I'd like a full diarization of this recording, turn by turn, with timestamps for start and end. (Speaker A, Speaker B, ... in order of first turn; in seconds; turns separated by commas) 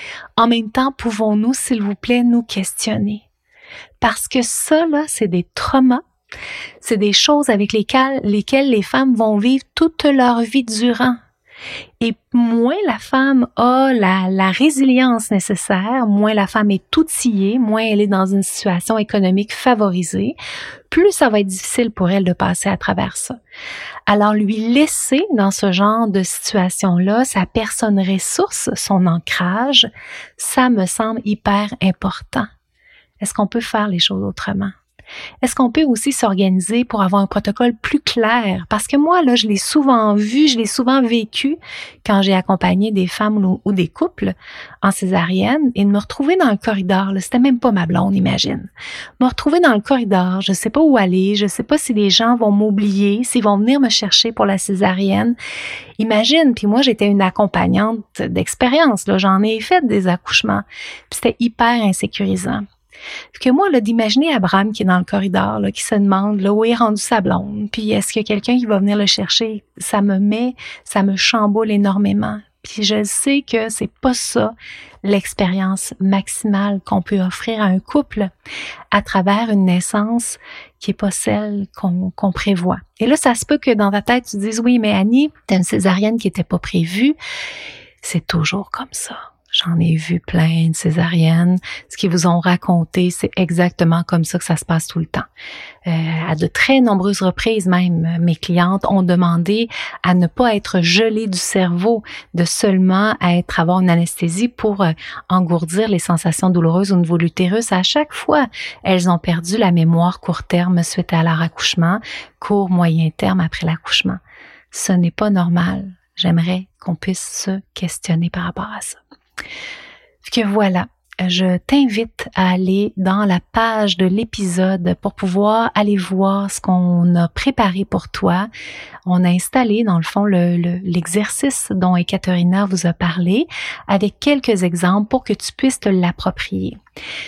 Speaker A: 0.4-3.2, Speaker A: 4.0-6.0, Speaker A: 6.8-11.2, Speaker A: 12.0-20.4, Speaker A: 20.9-23.4, Speaker A: 24.1-32.5, Speaker A: 33.2-34.7, Speaker A: 35.4-48.7, Speaker A: 49.2-55.4, Speaker A: 56.0-62.6, Speaker A: 63.3-78.3, Speaker A: 78.9-87.2, Speaker A: 88.0-95.2, Speaker A: 95.8-114.2, Speaker A: 114.7-119.0, Speaker A: 120.2-128.5, Speaker A: 129.1-136.8